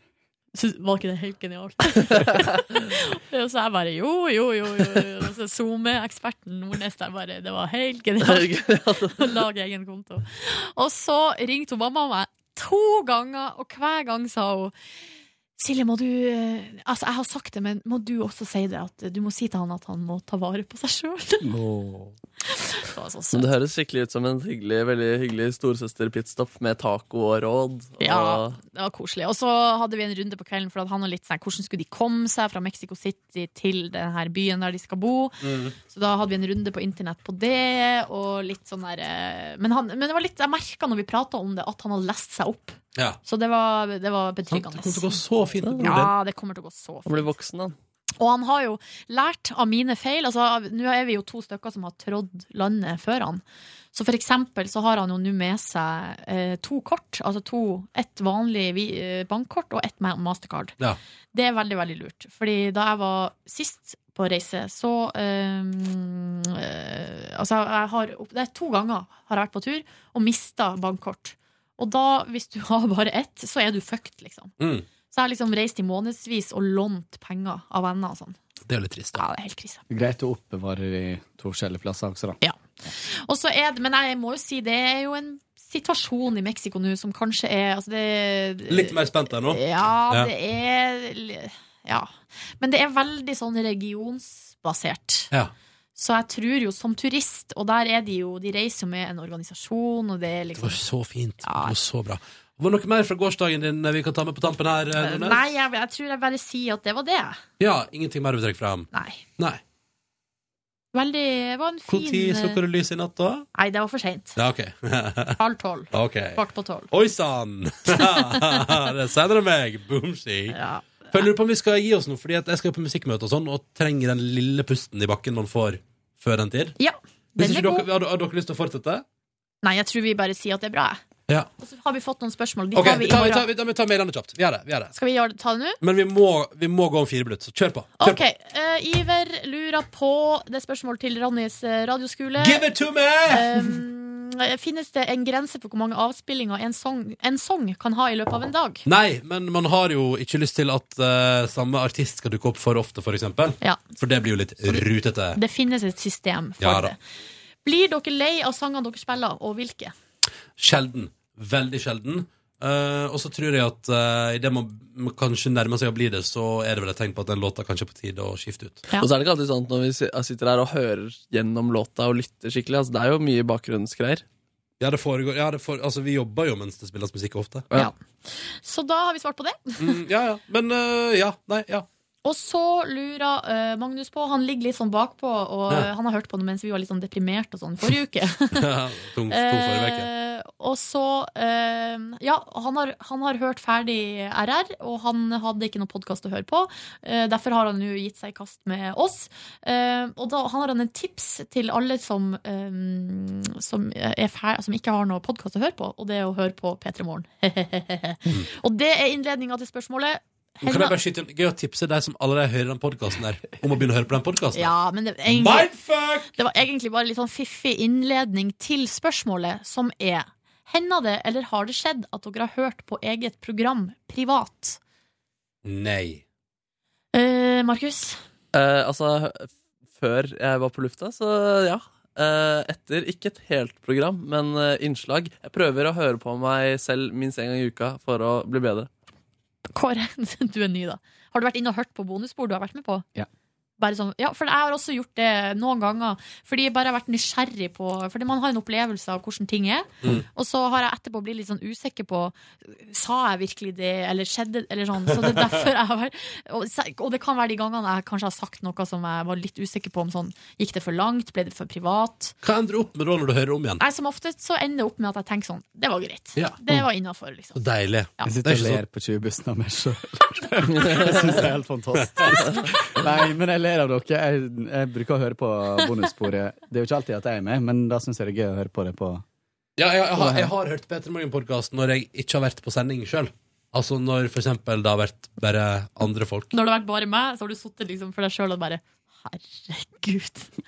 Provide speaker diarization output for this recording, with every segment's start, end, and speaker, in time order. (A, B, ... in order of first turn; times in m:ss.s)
0:00.5-0:14.7 A
0:08.2-0:09.4 B
0:15.6-0:21.5 A
0:21.4-0:22.2 C
0:22.5-0:23.5 A
0:23.3-0:28.6 B
0:28.0-0:45.2 A
0:35.4-0:35.8 D
0:44.5-0:46.1 D
0:45.6-0:46.1 B
0:45.8-0:47.3 A
0:47.1-0:47.8 B
0:48.2-1:00.8 A
1:01.3-1:14.5 A
1:14.6-1:14.9 D
1:15.1-1:18.4 A
1:18.7-1:19.2 D
1:19.2-1:19.8 A
1:19.9-1:22.4 C
1:22.4-1:35.3 A
1:28.7-1:30.3 D
1:36.0-1:40.8 A
1:40.6-1:45.5 D
1:41.4-1:41.8 A
1:45.0-1:47.4 A
1:47.6-1:49.6 D
1:48.9-1:49.2 A
1:50.9-1:52.6 A
1:51.9-1:53.5 D
1:53.6-1:54.4 A
1:54.4-1:55.4 D
1:55.4-1:56.9 A
1:55.9-1:56.4 D
1:56.9-2:00.6 D
1:57.9-1:58.8 A
2:00.5-2:01.2 A
2:01.1-2:06.8 D
2:06.8-2:07.9 A
2:07.4-2:09.0 D
2:09.6-2:11.0 A
2:11.6-2:13.5 A
2:12.8-2:14.9 D
2:14.9-2:15.8 A
2:15.8-2:18.2 D
2:18.0-2:22.6 A
2:22.4-2:23.5 D
2:23.3-2:28.9 A
2:28.9-2:35.4 D
2:35.4-2:37.0 A
2:36.6-2:36.9 D
2:37.6-2:39.9 A
2:40.6-2:48.8 D
2:49.0-2:54.2 B
2:54.8-2:57.7 D
2:57.7-3:00.0 A
2:59.8-3:01.9 D
3:02.2-3:08.7 A
3:08.5-3:10.1 D
3:09.3-3:31.0 A
3:30.6-3:34.7 D
3:34.5-3:35.7 A
3:35.3-3:36.3 D
3:36.3-3:44.8 A
3:45.6-3:46.2 D
3:47.1-3:48.2 A
3:48.5-3:58.9 B
3:59.7-4:03.1 A
4:03.8-4:22.4 A
4:15.2-4:15.5 D
4:22.4-4:23.8 D
4:23.8-4:27.6 A
4:27.6-4:28.8 D
4:28.2-4:39.2 C
4:39.8-4:46.5 D
4:40.1-4:40.5 C
4:46.5-4:50.5 A